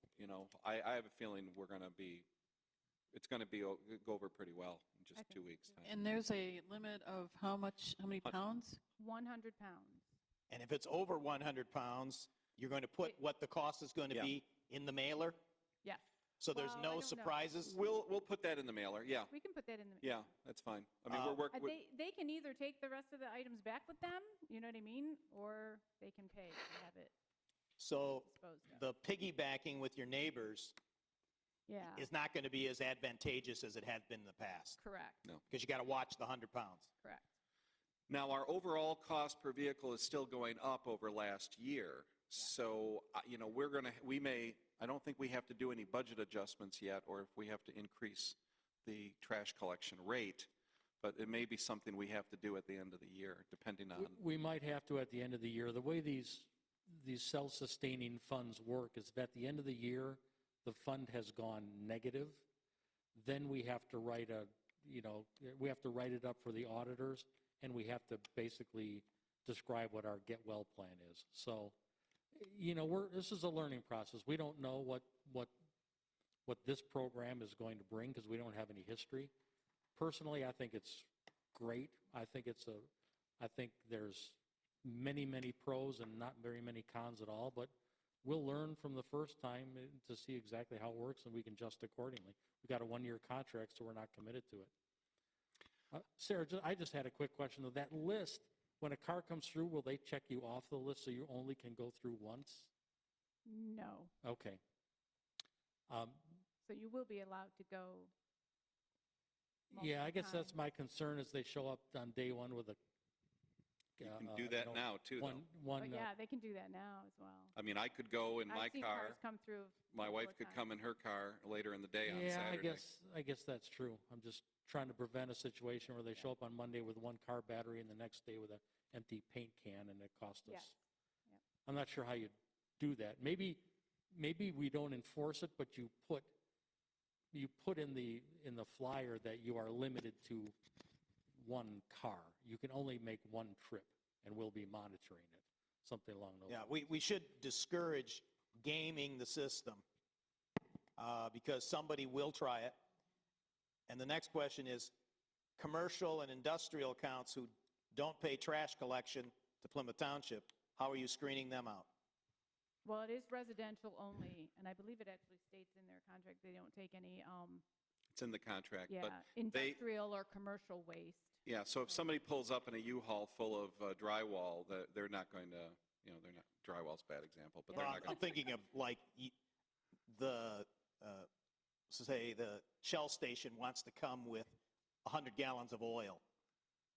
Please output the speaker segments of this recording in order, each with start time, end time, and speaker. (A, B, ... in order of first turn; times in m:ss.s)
0:00.2-0:02.3 A
0:03.1-0:05.9 A
0:05.2-0:06.2 B
0:05.8-0:08.8 C
0:09.0-0:10.0 B
0:10.5-0:15.4 D
0:15.8-0:17.3 B
0:16.4-0:17.8 D
0:17.6-0:19.3 A
0:19.3-0:20.2 B
0:20.0-0:21.7 A
0:21.1-0:21.4 D
0:21.5-0:27.1 B
0:27.8-0:30.7 D
0:28.1-0:28.8 B
0:31.7-0:32.1 B
0:31.9-0:34.8 D
0:34.8-0:35.2 B
0:35.5-0:36.9 D
0:38.1-0:50.5 A
0:51.0-0:54.2 A
0:53.9-1:02.4 E
1:03.1-1:11.8 E
1:12.3-1:15.5 E
1:16.4-1:19.3 E
1:19.9-1:34.7 E
1:35.9-1:42.7 E
1:43.4-1:44.1 B
1:44.2-1:44.6 E
1:45.9-1:46.4 E
1:46.6-1:48.1 B
1:49.7-1:52.8 E
1:49.7-1:50.6 B
1:54.0-1:56.1 E
1:54.0-1:55.4 A
1:55.8-1:57.5 B
1:57.5-1:59.2 A
1:58.5-2:00.7 B
1:59.9-2:02.8 A
2:02.0-2:10.8 E
2:10.4-2:10.7 B
2:11.6-2:16.3 E
2:17.3-2:20.5 E
2:21.3-2:26.9 E
2:26.5-2:29.8 D
2:31.0-2:32.8 D
2:33.9-2:34.9 D
2:35.6-2:41.9 D
2:42.8-2:47.6 B
2:48.1-2:49.8 A
2:48.9-2:51.4 B
2:51.4-2:58.2 A
2:57.7-2:58.0 B
2:57.7-2:59.3 D
3:00.1-3:01.3 D
3:01.9-3:06.2 D